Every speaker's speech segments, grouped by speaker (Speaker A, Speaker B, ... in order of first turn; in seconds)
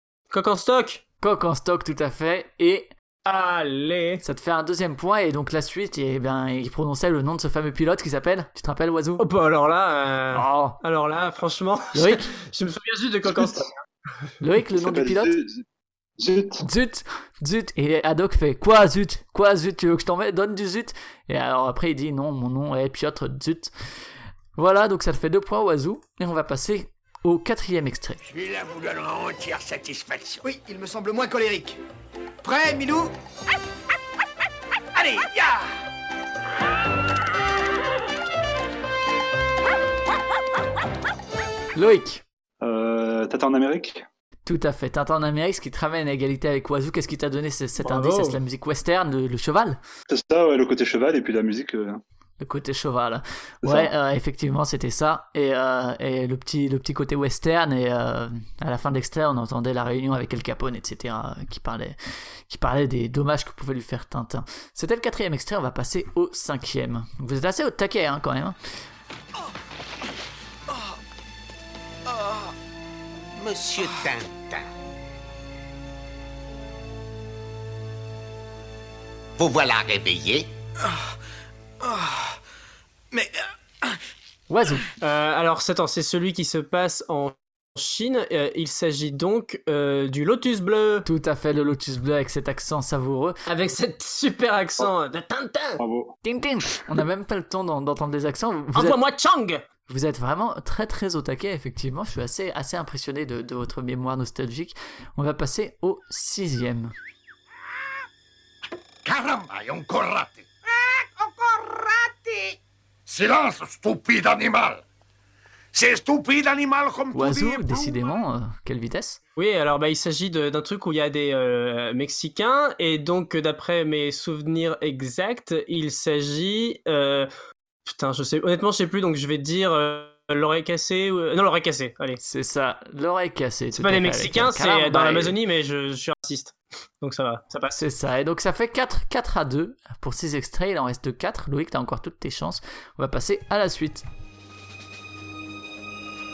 Speaker A: 0.3-1.0, 3.2-4.2, 9.2-13.7, 47.8-48.4, 85.0-91.0, 93.5-95.8, 98.7-99.6, 119.4-127.3, 127.9-132.2, 133.7-137.8
Speaker B: 1.2-2.9, 4.2-9.2, 10.3-10.8, 11.9-12.3, 14.4-15.4, 16.6-23.7, 24.6-28.2, 41.7-42.2, 44.4-49.8, 52.4-68.6, 84.5-84.8, 91.0-93.4, 96.2-99.0, 99.9-106.9, 117.1-119.2, 132.2-135.4, 137.7-144.0
Speaker C: 14.8-15.6, 16.2-16.6, 42.6-44.0, 50.1-52.0, 95.8-96.1
Speaker D: 28.3-30.4, 35.1-35.5, 73.8-74.4, 79.4-80.5, 109.0-110.5, 113.1-114.8, 115.7-117.8
Speaker E: 30.4-31.8, 32.4-33.1, 73.5-74.1, 81.8-82.1, 83.1-83.3